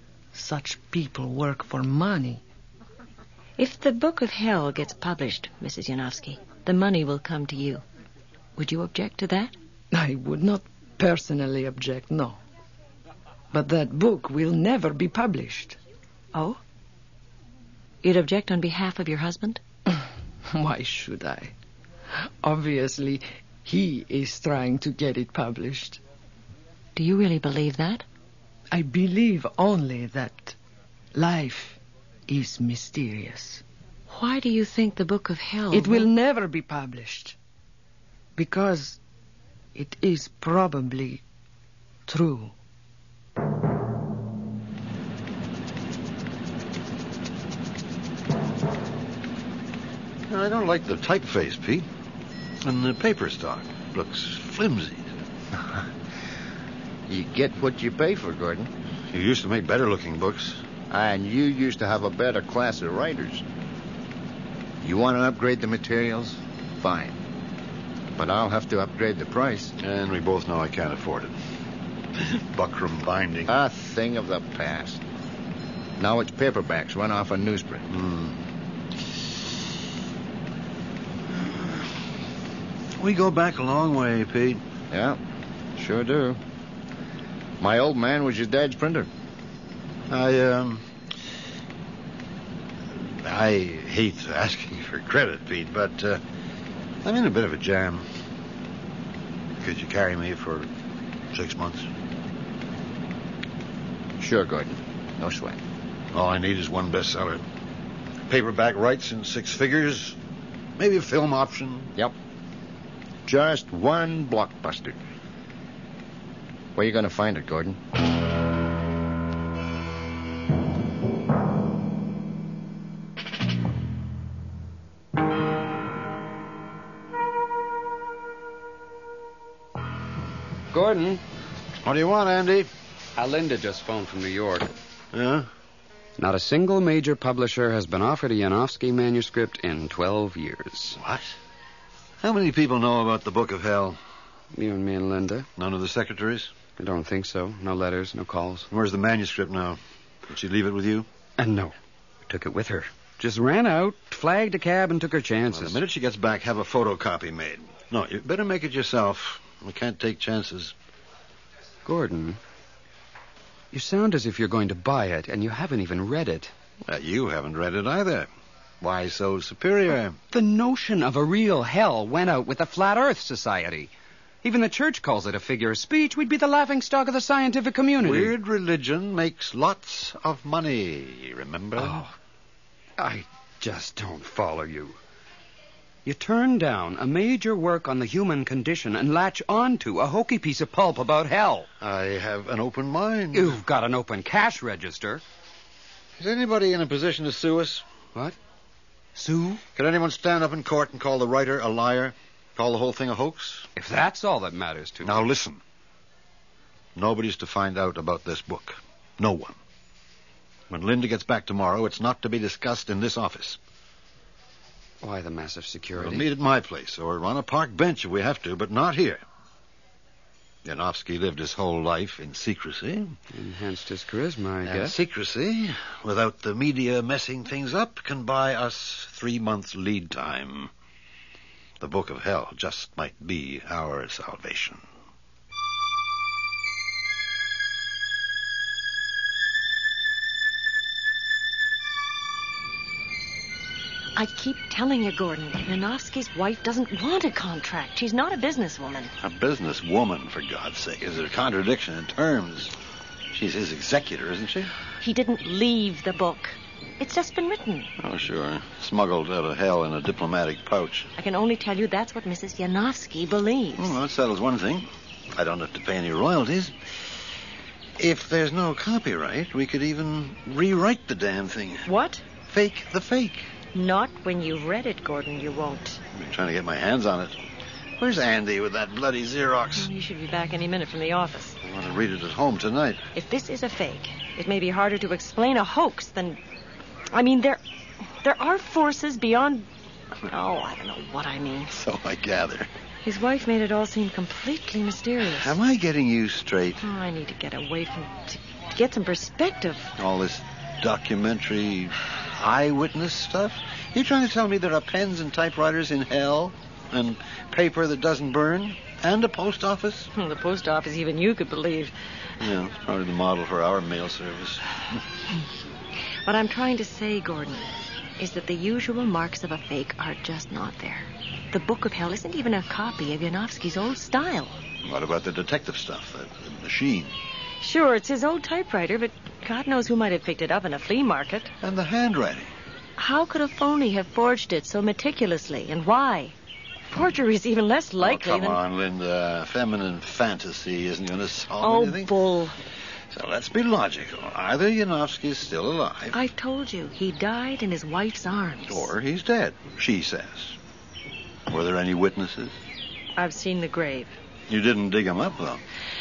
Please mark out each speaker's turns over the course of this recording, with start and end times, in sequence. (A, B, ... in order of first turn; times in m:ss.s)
0:00.3-0:02.4 A
0:03.6-0:07.8 B
0:08.6-0:09.5 B
0:09.9-0:12.4 A
0:13.5-0:15.8 A
0:16.3-0:16.6 B
0:18.0-0:19.6 B
0:20.5-0:21.5 A
0:22.1-0:26.0 A
0:26.9-0:28.0 B
0:28.7-0:30.6 A
0:31.1-0:33.6 A
0:34.1-0:36.1 B
0:35.7-0:37.4 A
0:38.4-0:39.0 A
0:39.7-0:41.2 A
0:42.1-0:42.5 A
0:50.3-0:51.9 C
0:52.6-0:55.1 C
0:55.5-0:55.9 D
0:57.1-0:58.7 D
0:59.1-1:00.6 C
1:00.9-1:03.4 D
1:04.8-1:07.2 D
1:08.2-1:09.8 D
1:09.8-1:11.3 C
1:12.2-1:13.5 C
1:13.5-1:15.0 D
1:16.0-1:17.8 D
1:17.9-1:18.4 C
1:21.3-1:21.9 C
1:23.0-1:24.6 C
1:24.9-1:25.2 D
1:25.8-1:26.4 D
1:27.6-1:29.1 D
1:30.1-1:30.8 C
1:33.0-1:36.2 C
1:37.0-1:38.1 C
1:39.6-1:40.7 C
1:41.3-1:41.9 C
1:44.2-1:45.6 D
1:46.1-1:47.4 C
1:48.3-1:50.2 C
1:50.8-1:51.9 C
1:53.2-1:55.0 D
1:56.7-1:57.8 D
2:10.7-2:11.2 E
2:11.8-2:12.7 C
2:13.2-2:14.7 E
2:15.1-2:15.5 C
2:16.2-2:21.0 E
2:21.0-2:21.3 C
2:22.2-2:24.0 C
2:24.5-2:25.5 E
2:25.6-2:26.5 C
2:26.8-2:28.7 E
2:28.7-2:31.1 C
2:31.4-2:31.7 E
2:32.3-2:35.8 E
2:35.5-2:40.7 C
2:41.8-2:42.4 E
2:43.7-2:46.5 E
2:46.8-2:48.3 C
2:48.8-2:50.2 C
2:50.3-2:53.9 E
2:54.4-2:58.3 E
2:58.0-3:02.0 C
3:01.8-3:02.1 E
3:03.0-3:05.0 E
3:06.0-3:11.7 E
3:11.8-3:13.5 C
3:13.3-3:15.2 E
3:16.2-3:17.8 C
3:19.2-3:19.6 E
3:19.7-3:23.7 C
3:23.8-3:25.2 E
3:25.0-3:25.6 C
3:27.0-3:29.6 C
3:30.7-3:33.6 C
3:35.0-3:36.3 E
3:35.9-3:39.2 C
3:40.6-3:43.2 C
3:43.3-3:45.0 E
3:44.6-3:50.7 C
3:51.8-3:54.8 C
4:04.2-4:09.1 B
4:09.2-4:12.7 C
4:13.3-4:14.7 C
4:15.0-4:17.9 B
4:18.0-4:21.1 C
4:21.2-4:24.0 B
4:23.8-4:26.9 C
4:28.0-4:31.8 C
4:31.8-4:32.2 B
4:32.5-4:33.5 C
4:33.7-4:36.0 B
4:36.1-4:37.4 C
4:38.0-4:39.9 C
4:39.8-4:41.6 B
4:41.6-4:43.0 C
4:43.1-4:46.4 B
4:47.1-4:49.7 B
4:50.3-4:51.7 B
4:51.7-4:52.7 C
4:53.0-4:55.5 B
4:55.4-4:56.8 C
4:56.8-5:00.0 B
5:00.0-5:10.1 C
5:10.1-5:11.9 B
5:12.4-5:15.0 C
5:16.2-5:24.6 B
5:24.8-5:27.1 C
5:27.6-5:31.5 B
5:31.6-5:32.5 C
5:33.0-5:36.3 B
5:36.9-5:38.6 B
5:38.0-5:42.1 C
5:41.6-5:42.6 B
5:43.1-5:46.2 C
5:46.1-5:48.9 B
5:48.6-5:50.6 C
5:51.5-5:52.6 C
5:53.2-5:54.2 B
5:54.5-5:55.6 C